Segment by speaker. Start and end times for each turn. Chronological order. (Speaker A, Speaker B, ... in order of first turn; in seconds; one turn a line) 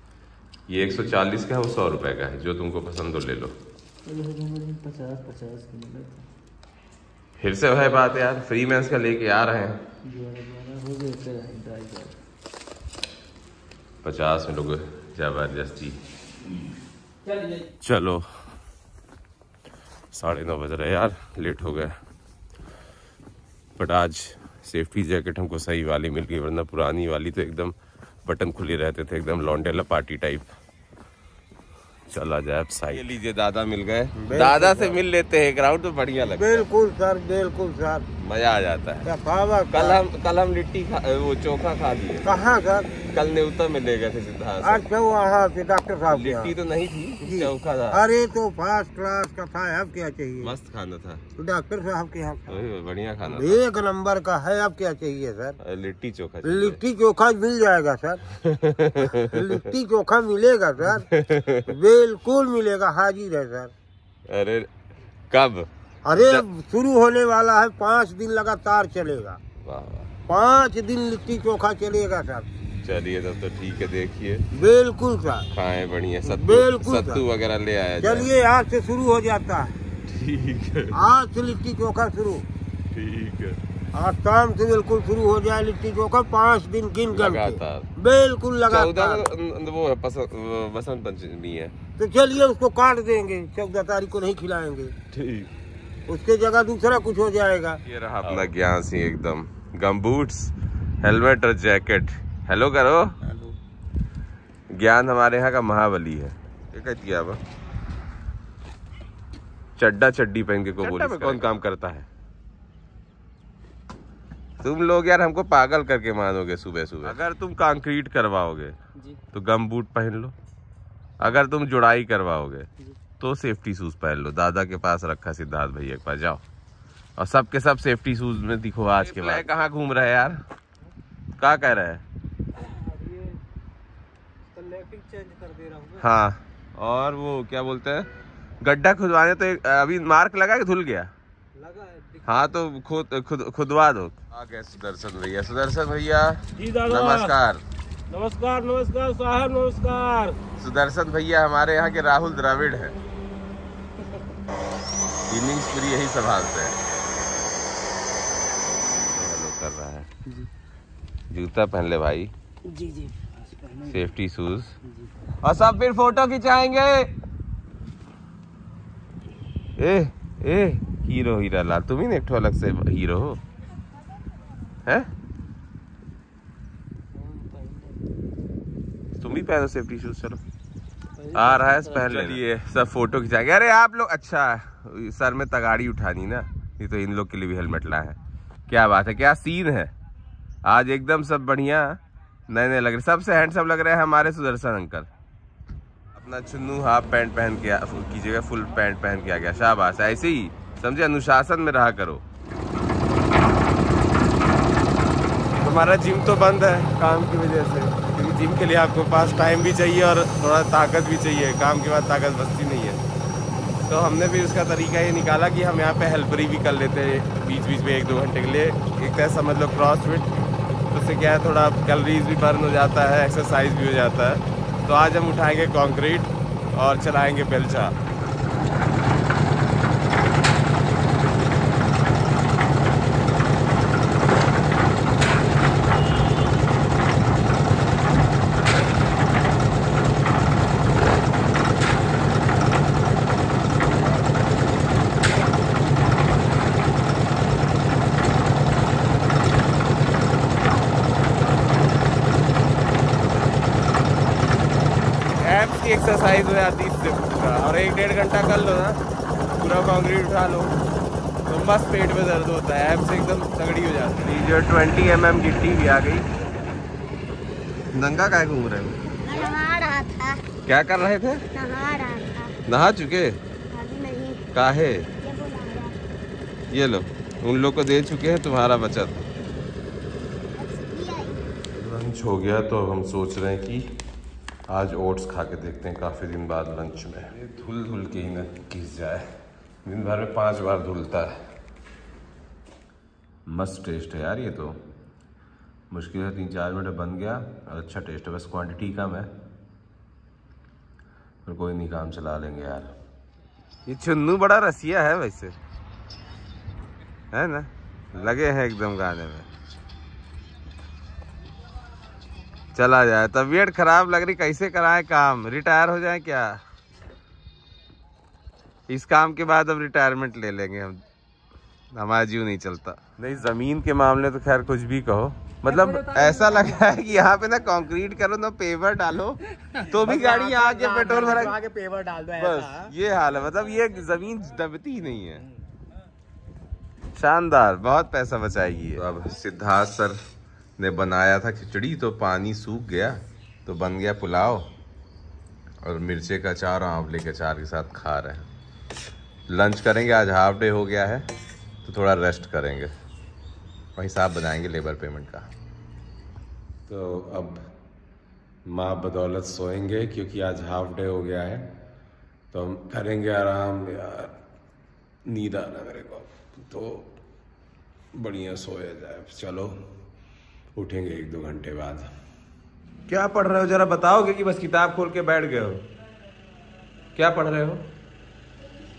Speaker A: 0.7-3.6
Speaker B: 4.0-6.3
Speaker A: 7.4-9.8
Speaker B: 10.1-12.2
Speaker A: 14.0-16.0
Speaker B: 17.2-17.7
Speaker A: 17.8-18.3
Speaker A: 20.1-22.0
Speaker A: 23.8-30.5
Speaker A: 32.1-36.7
Speaker C: 34.2-35.0
Speaker C: 36.3-38.1
Speaker A: 38.2-39.1
Speaker C: 39.0-40.0
Speaker A: 39.7-42.4
Speaker C: 42.2-42.9
Speaker A: 43.0-44.8
Speaker C: 44.6-46.5
Speaker A: 46.1-48.1
Speaker C: 47.2-50.5
Speaker A: 50.4-51.2
Speaker C: 51.4-52.6
Speaker A: 52.5-53.6
Speaker C: 53.2-55.6
Speaker A: 55.6-56.8
Speaker C: 56.4-58.2
Speaker A: 58.4-59.5
Speaker C: 59.0-61.1
Speaker A: 60.9-61.7
Speaker C: 61.7-63.7
Speaker A: 64.3-64.7
Speaker A: 65.3-66.5
Speaker C: 66.0-69.4
Speaker A: 69.6-70.1
Speaker C: 70.3-72.5
Speaker A: 72.8-74.4
Speaker C: 74.5-75.5
Speaker A: 75.5-78.3
Speaker C: 76.2-77.2
Speaker C: 78.0-79.8
Speaker A: 80.1-81.0
Speaker C: 80.9-82.5
Speaker A: 82.9-83.6
Speaker C: 83.9-89.3
Speaker A: 87.1-87.9
Speaker A: 88.7-91.8
Speaker C: 92.0-94.9
Speaker A: 95.1-95.5
Speaker C: 96.1-97.8
Speaker A: 97.9-103.2
Speaker A: 104.7-107.4
Speaker A: 109.8-112.1
Speaker A: 114.6-118.8
Speaker A: 119.3-120.3
Speaker A: 121.2-122.7
Speaker A: 123.2-126.4
Speaker A: 127.2-130.4
Speaker A: 131.4-132.0
Speaker B: 132.6-133.3
Speaker C: 134.6-136.0
Speaker A: 136.0-138.1
Speaker A: 138.6-141.1
Speaker C: 141.6-142.2
Speaker A: 142.2-147.6
Speaker C: 146.6-147.3
Speaker C: 148.1-150.4
Speaker A: 150.6-153.0
Speaker A: 155.3-156.8
Speaker A: 159.0-160.1
Speaker A: 161.3-162.3
Speaker B: 162.7-164.1
Speaker A: 163.9-164.7
Speaker B: 164.8-165.1
Speaker A: 165.4-167.1
Speaker A: 169.8-173.4
Speaker A: 174.8-175.1
Speaker B: 177.1-178.1
Speaker A: 179.2-180.4
Speaker B: 181.2-182.4
Speaker A: 181.3-189.9
Speaker A: 190.7-195.1
Speaker A: 196.1-202.2
Speaker A: 205.6-213.0
Speaker A: 213.8-220.3
Speaker A: 220.9-227.9
Speaker A: 255.4-260.8
Speaker A: 261.5-266.3
Speaker A: 267.9-269.0
Speaker D: 269.2-270.4
Speaker A: 270.6-271.4
Speaker D: 271.5-272.6
Speaker A: 272.6-273.4
Speaker D: 273.7-274.4
Speaker A: 274.5-275.1
Speaker D: 275.2-276.0
Speaker A: 276.7-279.3
Speaker D: 280.6-281.5
Speaker A: 281.7-283.9
Speaker A: 284.7-289.3
Speaker A: 289.9-291.4
Speaker A: 293.5-294.8
Speaker A: 295.9-299.3
Speaker A: 301.4-302.9
Speaker A: 303.9-305.6
Speaker A: 307.3-309.5
Speaker A: 312.8-316.6
Speaker A: 318.9-321.0
Speaker A: 321.9-331.6
Speaker E: 325.7-326.8
Speaker E: 329.9-332.9
Speaker A: 332.4-335.4
Speaker A: 337.1-340.2
Speaker A: 340.8-344.7
Speaker A: 345.8-348.5
Speaker A: 349.5-351.3
Speaker A: 351.8-352.9
Speaker A: 354.0-355.5
Speaker A: 356.9-357.6
Speaker A: 358.6-361.7
Speaker A: 362.5-364.3
Speaker A: 365.3-367.1
Speaker A: 368.1-369.8
Speaker A: 370.8-372.1
Speaker A: 373.1-375.8
Speaker A: 377.1-377.8